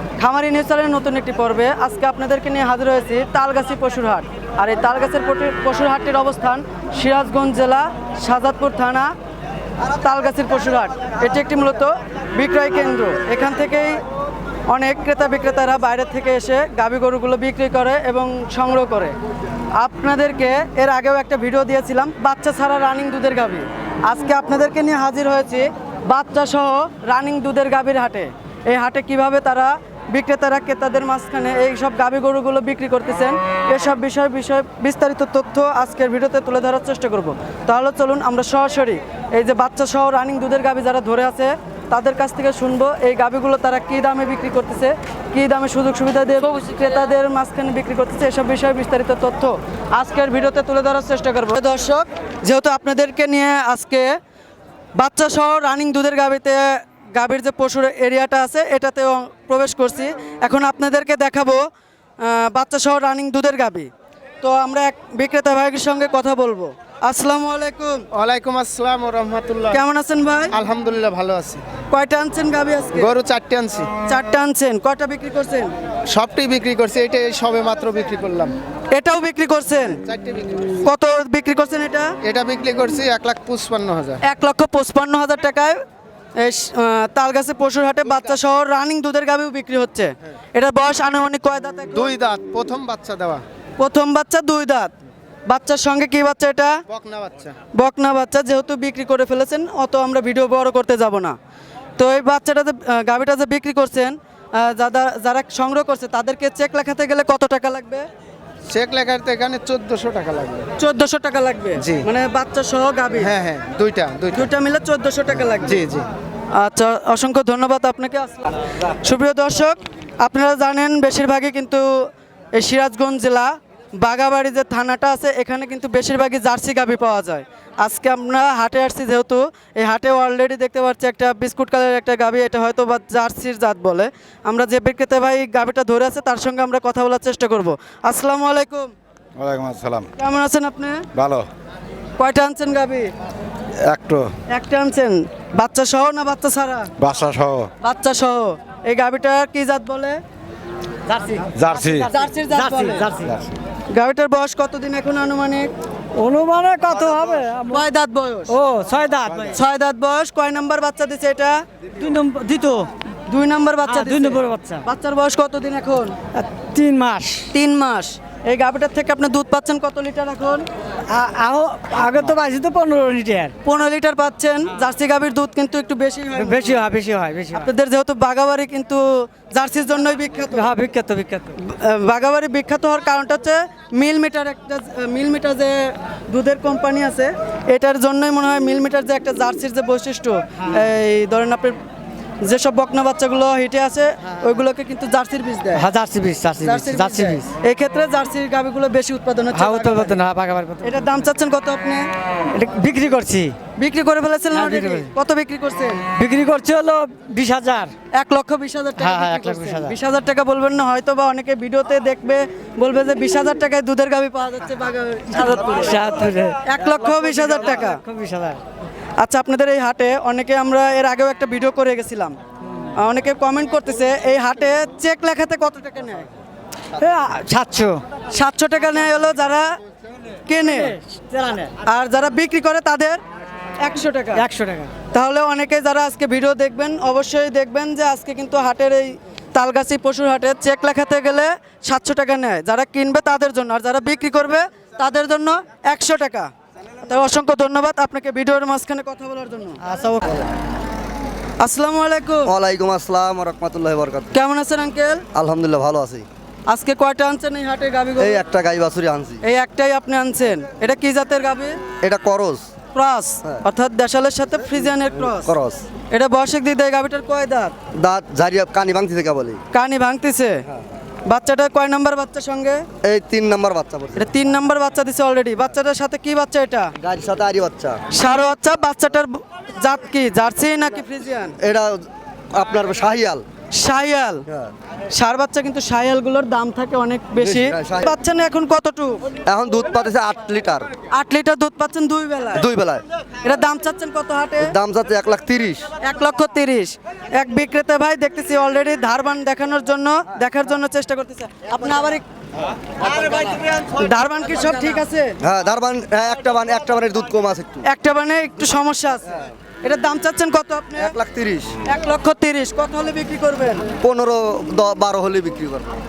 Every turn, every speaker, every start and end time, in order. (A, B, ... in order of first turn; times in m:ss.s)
0:00.2-0:09.1 A
0:09.9-0:14.0 A
0:14.7-0:19.2 A
0:19.8-0:54.2 A
0:55.0-1:01.6 A
1:02.2-1:03.9 A
1:04.4-1:08.1 A
1:08.1-1:09.8 B
1:09.7-1:10.6 A
1:10.5-1:11.6 B
1:11.9-1:13.1 A
1:13.0-1:13.9 B
1:14.1-1:15.7 A
1:16.1-1:18.6 B
1:18.9-1:20.0 A
1:20.0-1:20.8 B
1:20.8-1:22.1 A
1:22.2-1:24.2 B
1:24.2-1:25.8 A
1:26.4-1:32.1 A
1:31.9-1:33.4 B
1:33.8-1:34.9 A
1:35.5-1:36.8 A
1:36.9-1:37.6 B
1:37.8-1:41.4 A
1:42.0-1:48.1 A
1:48.7-1:50.7 B
1:50.8-1:53.3 A
1:51.8-1:52.1 B
1:53.2-1:54.5 B
1:54.3-1:55.8 A
1:55.6-1:56.1 B
1:56.5-2:18.9 A
2:19.4-2:20.1 C
2:20.2-2:21.1 A
2:21.1-2:21.5 C
2:22.2-2:23.1 A
2:23.8-2:24.3 C
2:24.5-2:26.9 A
2:27.0-2:27.7 C
2:27.8-2:30.2 A
2:31.1-2:33.4 D
2:31.5-2:32.1 C
2:32.1-2:33.1 A
2:33.3-2:33.6 C
2:33.9-2:35.7 A
2:36.2-2:37.8 D
2:37.7-2:38.6 A
2:38.5-2:39.5 D
2:39.5-2:41.6 A
2:42.0-2:42.9 D
2:43.3-2:46.2 A
2:43.8-2:44.9 D
2:46.3-2:47.6 D
2:47.5-2:50.7 A
2:51.1-2:53.6 D
2:53.6-2:56.8 A
2:56.4-2:57.7 D
2:57.5-3:00.7 A
3:00.5-3:01.6 D
3:01.6-3:11.8 A
3:12.4-3:15.9 A
3:15.7-3:17.5 D
3:16.6-3:20.2 A
3:19.5-3:21.0 D
3:20.8-3:22.1 A
3:22.5-3:23.6 D
3:23.8-3:26.0 A
3:24.5-3:25.1 D
3:26.1-3:27.9 D
3:28.1-3:36.0 A
3:29.0-3:30.0 D
3:35.8-3:36.7 D
3:36.6-3:38.0 A
3:37.5-3:38.6 D
3:39.2-3:42.4 A
3:42.9-3:46.3 A
3:47.0-3:48.0 D
3:48.3-3:49.8 A
3:50.5-3:51.0 A
3:50.6-3:51.7 D
3:51.8-3:53.2 A
3:53.8-3:54.5 A
3:54.3-3:54.9 D
3:55.1-4:06.5 A
4:07.0-4:09.8 A
4:09.8-4:10.5 D
4:11.6-4:12.5 A
4:12.5-4:14.3 E
4:14.3-4:15.3 A
4:15.3-4:16.3 E
4:16.7-4:18.4 A
4:18.2-4:19.4 E
4:19.4-4:21.8 A
4:22.0-4:22.7 E
4:22.9-4:25.5 A
4:25.3-4:25.8 E
4:26.1-4:27.8 A
4:27.9-4:29.6 E
4:29.7-4:30.6 A
4:31.3-4:32.8 A
4:33.0-4:34.3 E
4:34.2-4:36.9 A
4:37.0-4:38.0 E
4:38.1-4:41.6 A
4:41.6-4:43.4 E
4:43.7-4:44.4 A
4:44.5-4:44.7 E
4:45.1-4:49.3 A
4:47.4-4:48.2 E
4:49.5-4:50.9 E
4:51.1-4:52.6 A
4:52.6-4:53.0 E
4:53.4-4:54.7 A
4:54.6-4:55.9 E
4:56.0-5:02.2 A
5:03.1-5:03.5 E
5:03.8-5:05.4 A
5:05.4-5:07.9 E
5:07.9-5:11.1 A
5:11.0-5:11.8 E
5:11.8-5:13.9 A
5:14.0-5:15.9 E